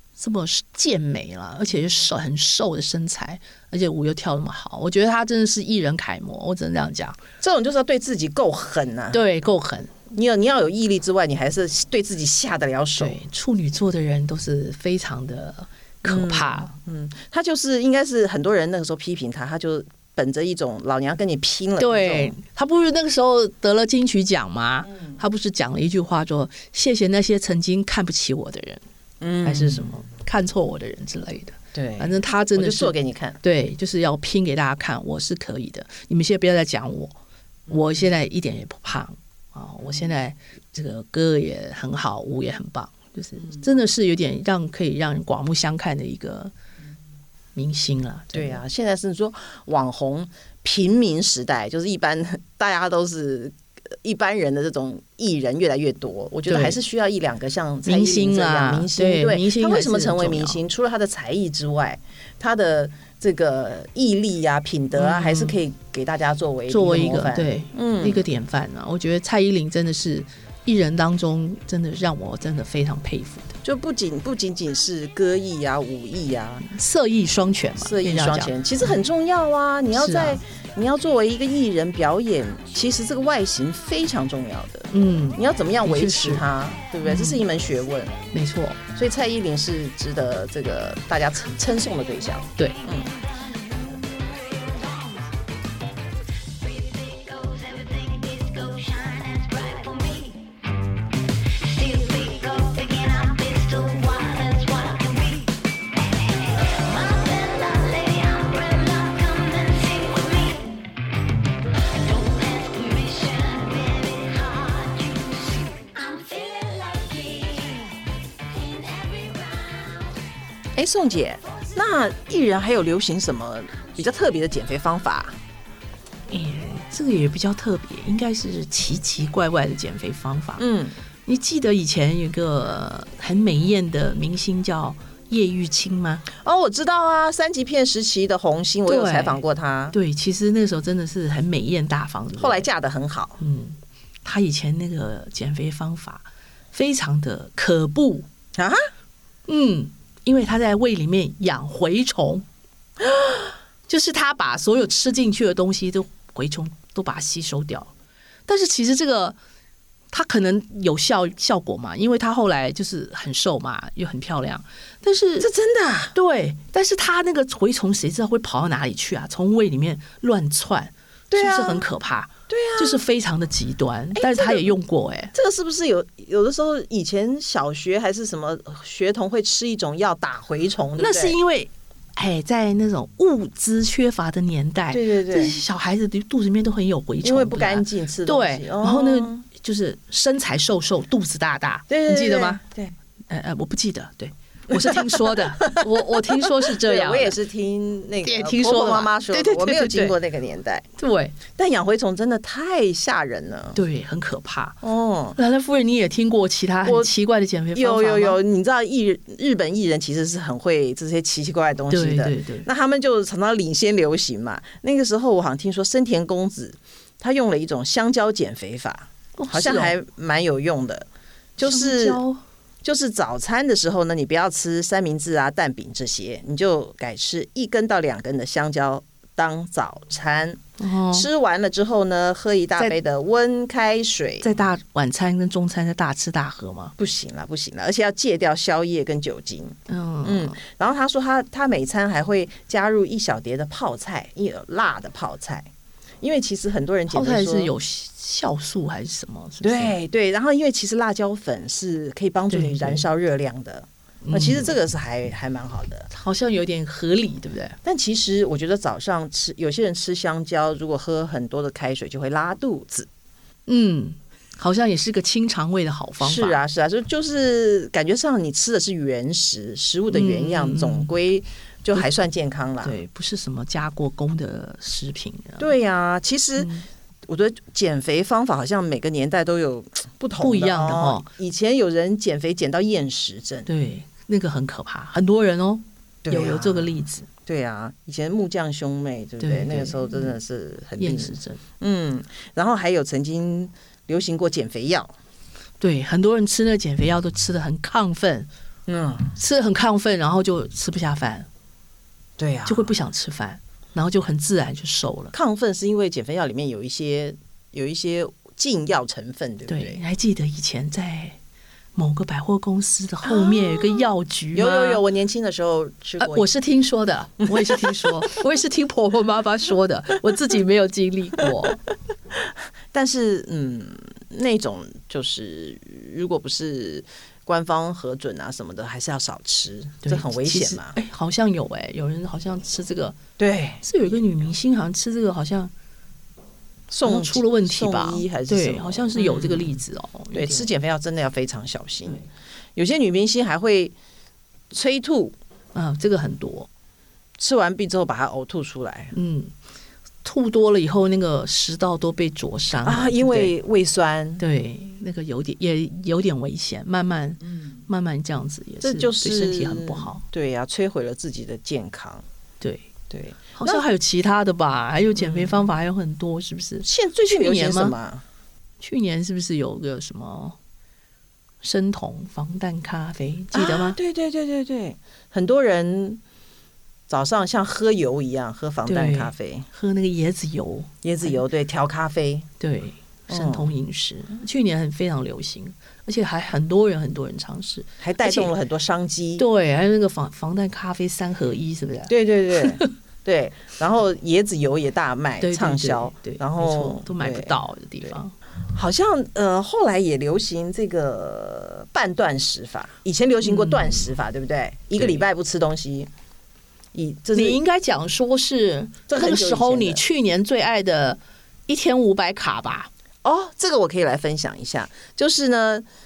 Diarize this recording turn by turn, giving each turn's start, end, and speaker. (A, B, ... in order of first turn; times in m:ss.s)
0:00.2-0:07.2 A
0:07.4-0:09.2 B
0:09.1-0:10.0 A
0:10.1-0:13.2 B
0:13.0-0:16.7 A
0:16.0-0:22.4 B
0:21.8-0:28.8 A
0:29.2-0:29.9 B
0:29.4-0:37.1 A
0:31.7-0:33.4 B
0:37.7-0:46.5 A
0:47.6-0:48.6 A
0:48.3-1:08.2 B
0:56.5-0:56.8 A
0:57.9-1:00.6 A
1:05.0-1:05.6 A
1:06.7-1:13.5 A
1:13.6-1:16.6 B
1:16.6-1:18.5 A
1:17.8-1:28.2 B
1:20.0-1:20.4 A
1:24.9-1:26.5 A
1:27.0-1:27.4 A
1:28.3-1:28.8 A
1:29.0-1:33.1 B
1:33.8-1:35.3 C
1:36.6-1:40.6 C
1:41.5-1:50.9 C
1:51.9-2:00.0 C
2:00.8-2:05.4 B
2:06.3-2:10.6 A
2:10.6-2:11.0 B
2:11.3-2:16.3 A
2:16.4-2:20.0 B
2:18.9-2:22.7 A
2:22.4-2:23.4 B
2:23.4-2:28.3 A
2:28.6-2:28.8 B
2:29.5-2:32.4 A
2:33.9-2:37.9 A
2:38.5-2:39.4 A
2:40.1-2:45.5 A
2:45.4-2:46.1 B
2:46.1-2:55.3 A
2:51.3-2:51.8 B
2:52.5-2:53.0 B
2:54.2-2:54.7 B
2:55.3-3:01.4 B
3:01.0-3:12.6 A
3:04.9-3:05.6 B
3:07.2-3:09.4 B
3:11.9-3:13.0 B
3:13.3-3:17.4 A
3:14.7-3:20.8 B
3:18.2-3:20.2 A
3:21.0-3:21.4 A
3:21.5-3:23.8 B
3:23.8-3:24.8 A
3:24.8-3:25.4 B
3:25.4-3:28.4 A
3:26.8-3:27.1 B
3:27.8-3:42.2 B
3:31.9-3:32.7 A
3:39.4-3:40.0 A
3:41.6-3:42.4 A
3:42.8-3:54.5 B
3:50.8-3:51.3 A
3:54.4-3:57.0 A
3:57.0-4:05.7 B
3:59.9-4:00.6 A
4:06.2-4:07.7 B
4:07.1-4:09.9 A
4:09.6-4:16.1 B
4:12.5-4:13.0 A
4:14.2-4:14.7 A
4:16.1-4:17.8 A
4:17.8-4:23.1 B
4:23.7-4:26.6 A
4:26.2-4:33.0 B
4:30.1-4:31.1 A
4:32.8-4:35.7 A
4:35.6-4:36.7 B
4:36.6-4:36.9 A
4:37.3-4:43.7 B
4:40.4-4:41.3 A
4:43.7-4:47.3 A
4:46.2-4:55.1 B
4:49.4-4:50.4 A
4:51.0-4:51.6 A
4:55.8-4:58.5 A
4:58.9-4:59.4 B
4:59.4-5:01.5 A
5:02.4-5:03.0 B
5:02.7-5:05.4 A
5:05.3-5:10.0 B
5:09.7-5:11.4 A
5:12.0-5:15.0 A
5:13.2-5:16.5 B
5:16.2-5:21.8 A
5:17.5-5:18.2 B
5:22.4-5:31.0 B
5:30.0-5:33.2 A
5:33.4-5:33.8 B
5:33.8-5:35.7 A
5:36.9-5:39.7 B
5:37.0-5:40.7 A
5:40.3-5:42.2 B
5:42.8-5:44.0 B
5:44.7-5:45.4 B
5:45.8-5:46.7 A
5:47.4-5:49.1 B
5:49.1-5:49.5 A
5:50.2-5:53.5 A
5:52.8-5:54.4 B
5:54.4-6:00.2 A
5:58.8-6:02.2 B
6:02.6-6:02.9 A
6:03.1-6:03.8 B
6:03.6-6:08.0 A
6:05.2-6:05.7 B
6:06.8-6:08.2 B
6:08.8-6:10.6 A
6:11.6-6:14.0 A
6:13.5-6:16.2 B
6:17.1-6:19.7 B
6:18.9-6:21.3 A
6:21.0-6:22.5 B
6:22.6-6:28.5 A
6:23.3-6:23.7 B
6:28.0-6:29.4 B
6:29.4-6:32.9 A
6:32.1-6:37.5 B
6:35.4-6:38.3 A
6:38.7-6:46.1 B
6:43.4-6:44.1 A
6:45.0-6:45.2 A
6:46.9-6:47.6 B
6:47.4-6:52.9 A
6:49.1-6:50.0 B
6:53.2-6:55.8 B